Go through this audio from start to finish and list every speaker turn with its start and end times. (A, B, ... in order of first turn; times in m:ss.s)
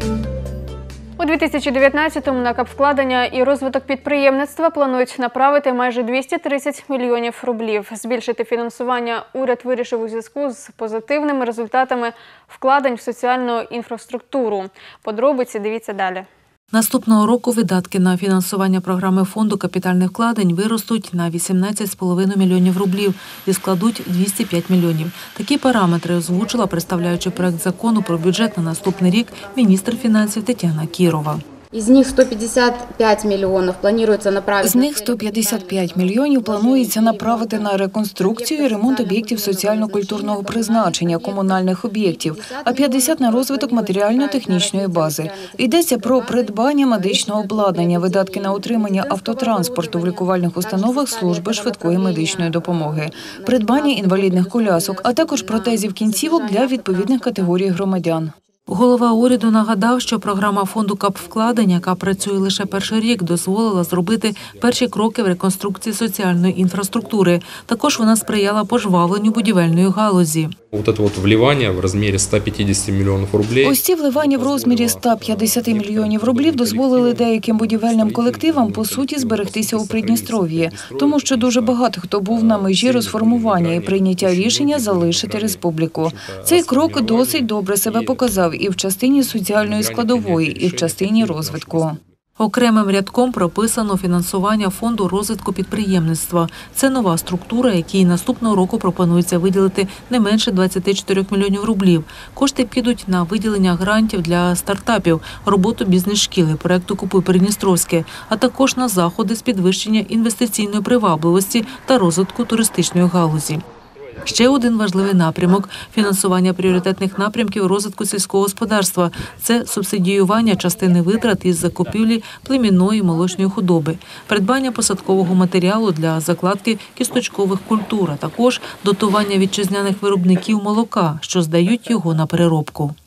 0:01.2-0:16.3 A
0:16.7-0:31.4 B
0:26.5-0:30.2 C
0:31.7-0:58.4 C
0:34.6-0:58.3 D
0:58.7-1:10.6 B
1:02.7-1:04.8 E
1:10.7-1:28.4 E
1:13.6-1:32.0 D
1:29.2-1:32.1 E
1:32.4-1:53.6 B
1:54.2-2:13.0 B